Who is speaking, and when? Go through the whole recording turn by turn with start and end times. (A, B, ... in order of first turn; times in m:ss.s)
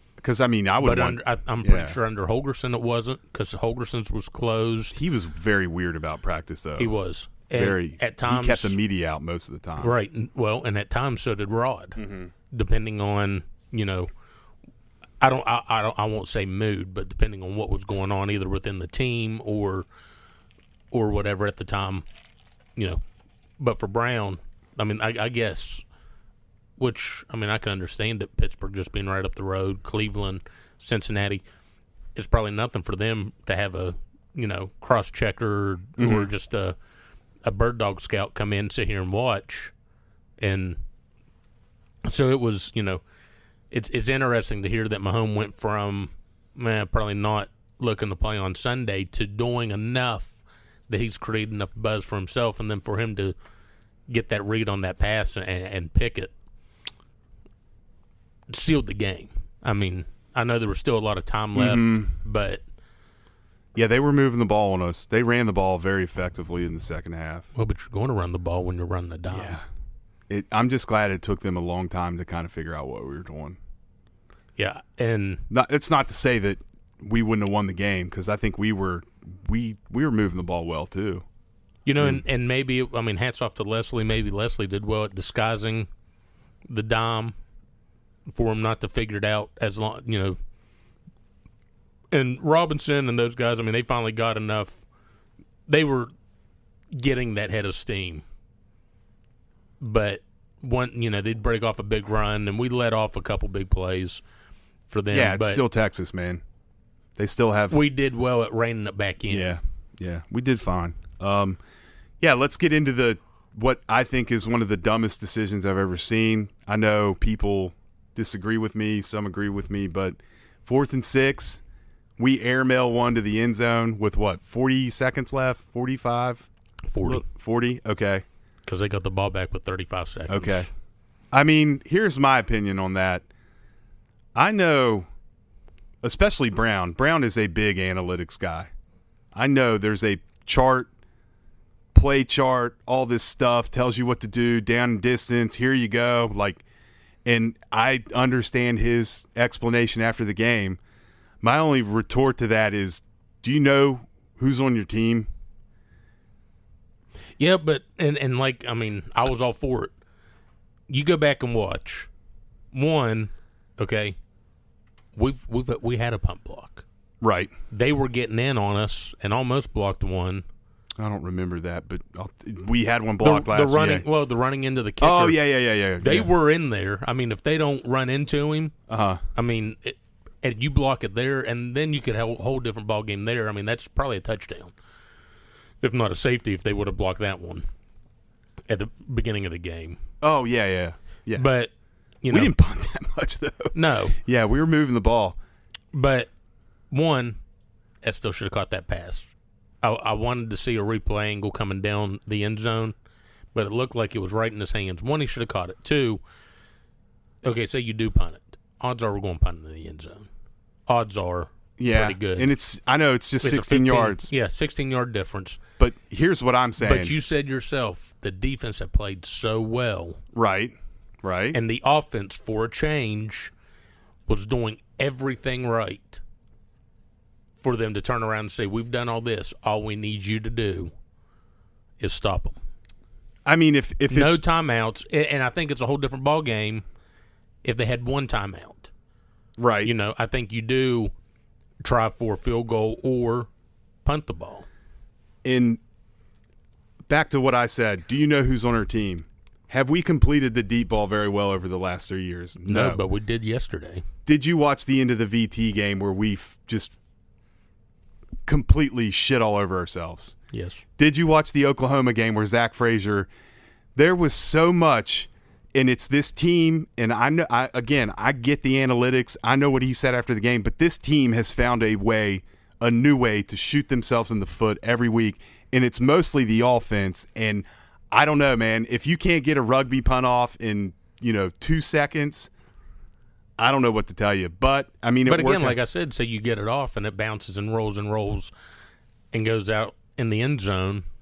0:00.2-0:02.0 A
0:00.8-0:05.0 B
0:04.9-0:06.9 A
0:06.8-0:08.8 B
0:07.5-0:09.9 A
0:09.8-0:14.1 B
0:12.0-0:12.3 A
0:15.2-0:19.9 B
0:20.9-0:22.0 B
0:22.8-0:23.0 B
0:23.6-0:25.8 B
0:26.8-0:31.4 B
0:32.1-0:36.8 B
0:36.0-0:36.3 A
0:37.4-0:39.7 B
0:40.4-0:40.8 B
0:42.0-0:43.0 B
0:43.7-0:50.4 B
0:50.9-0:53.3 B
0:54.1-0:56.3 B
0:58.5-1:02.6 B
1:01.5-1:02.1 A
1:03.8-1:07.5 A
1:07.5-1:09.6 B
1:09.3-1:09.6 A
1:10.3-1:13.6 A
1:14.6-1:15.4 B
1:15.5-1:21.2 A
1:21.8-1:25.9 B
1:26.7-1:27.3 B
1:28.3-1:30.4 B
1:32.1-1:34.8 B
1:35.7-1:36.1 B
1:36.9-1:38.2 B
1:39.8-1:44.2 B
1:44.9-1:45.6 B
1:45.1-1:46.4 A
1:47.2-1:47.8 A
1:47.7-1:49.6 B
1:49.3-1:51.6 A
1:52.2-2:01.6 A
2:02.2-2:06.5 A
2:06.9-2:07.2 B
2:07.0-2:08.2 A
2:08.6-2:10.7 B
2:10.3-2:10.7 A
2:11.3-2:13.2 A
2:14.3-2:15.1 A
2:16.0-2:18.7 A
2:19.3-2:20.9 A
2:21.9-2:26.6 A
2:27.2-2:30.8 A
2:31.4-2:35.3 A
2:37.4-2:39.9 B
2:40.9-2:42.1 B
2:42.7-2:44.2 B
2:45.1-2:46.8 B
2:47.2-2:47.5 A
2:47.7-2:50.4 B
2:51.0-2:54.0 A
2:53.2-2:55.4 B
2:55.0-2:56.3 A
2:56.0-2:58.8 B
2:58.9-2:59.2 A
2:59.3-3:04.7 B
3:05.8-3:07.6 B
3:08.7-3:10.0 B
3:10.2-3:11.5 A
3:11.3-3:11.7 B
3:12.2-3:12.5 B
3:12.3-3:15.4 A
3:13.7-3:14.2 B
3:15.9-3:16.3 B
3:16.9-3:17.4 B
3:18.0-3:19.3 B
3:19.8-3:23.0 B
3:23.5-3:26.2 B
3:27.4-3:30.3 B
3:30.9-3:32.5 B
3:31.8-3:34.3 A
3:33.4-3:35.6 B
3:35.8-3:37.1 A
3:36.8-3:40.2 B
3:40.3-3:41.6 A
3:41.5-3:43.5 B
3:44.3-3:46.2 B
3:47.6-3:50.9 B
3:52.0-3:52.6 B
3:53.4-3:54.4 A
3:54.1-3:56.8 B
3:57.6-3:58.9 B
3:59.6-3:59.9 A
3:59.8-4:01.1 B
4:01.8-4:03.5 B
4:04.0-4:04.7 B
4:05.4-4:05.8 A
4:07.1-4:13.0 A
4:12.6-4:14.0 B
4:14.2-4:17.0 A
4:18.5-4:20.4 A
4:20.5-4:20.8 B
4:21.0-4:23.3 A
4:24.0-4:42.5 A
4:43.6-4:45.8 A
4:45.2-4:48.5 B
4:49.3-4:51.0 B